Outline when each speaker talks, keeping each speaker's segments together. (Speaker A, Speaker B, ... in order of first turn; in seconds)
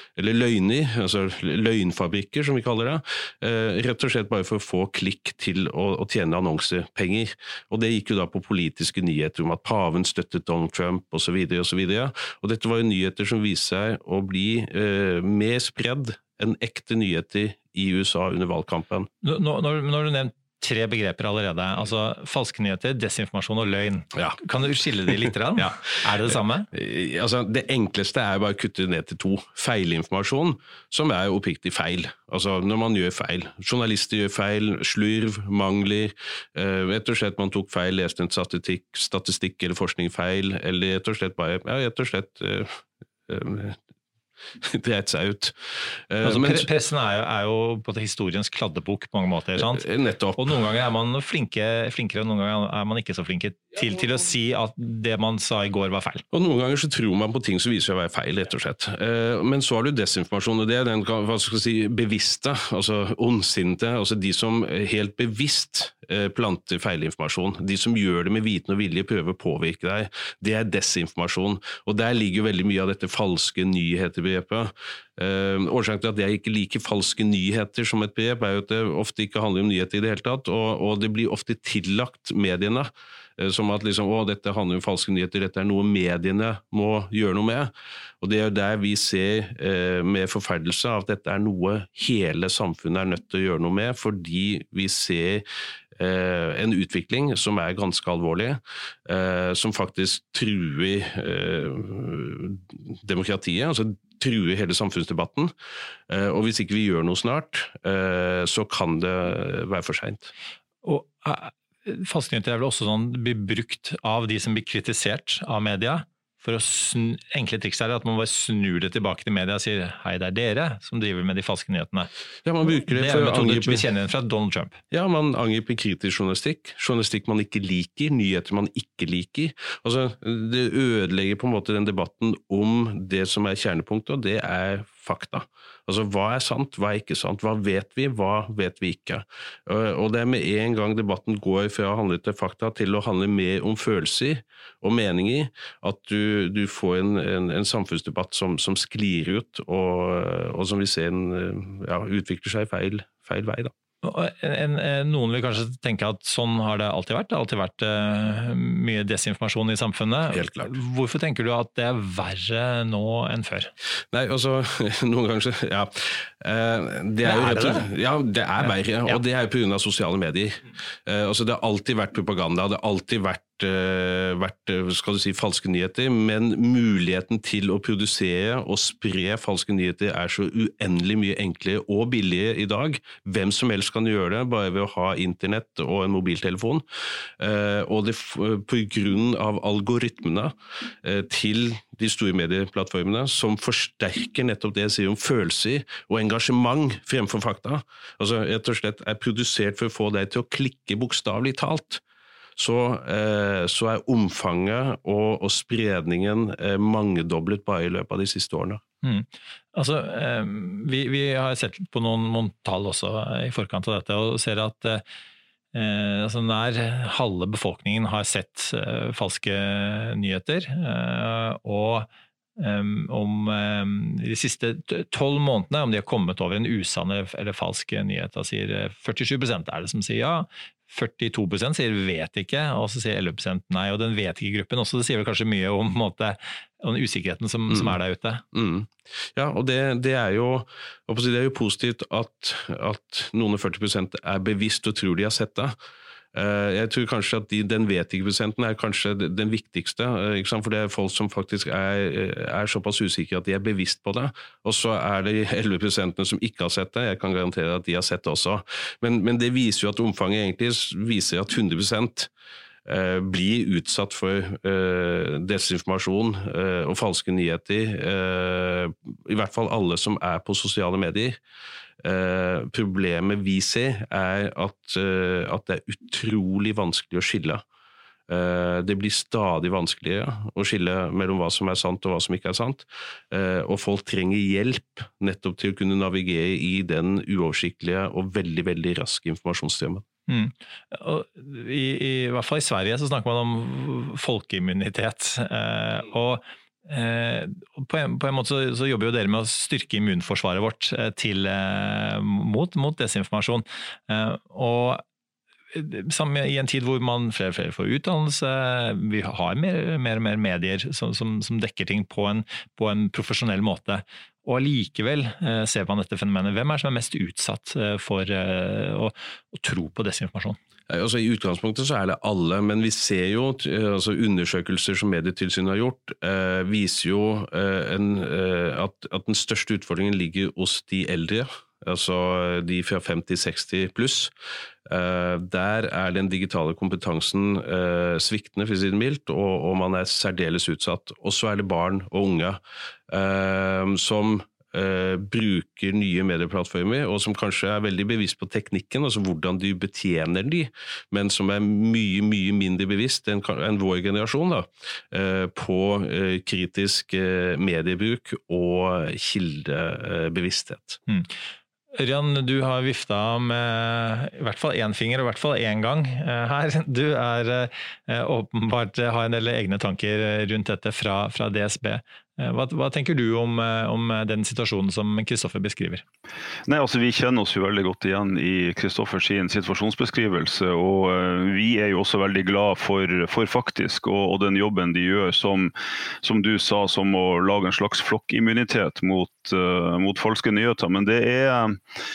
Speaker A: 0.1-19.1, 26.7-43.8, 44.6-46.7, 49.6-50.5, 56.3-95.4, 96.0-105.5, 106.1-110.3, 122.4-123.8, 124.9-153.7, 160.3-160.7, 164.1-186.8, 187.4-202.0, 202.6-208.8, 238.5-245.8, 246.3-262.3, 262.9-271.4, 272.0-277.6, 278.3-290.0, 320.9-334.3, 334.9-342.6, 343.1-361.0
Speaker B: 19.2-26.7, 46.2-49.8, 50.4-56.2, 110.8-122.1, 122.7-124.8, 154.0-163.7, 167.2-167.8, 209.0-215.0, 215.7-238.4, 290.3-305.0, 305.7-320.6, 361.9-376.0
Speaker C: 376.7-385.7, 386.2-391.8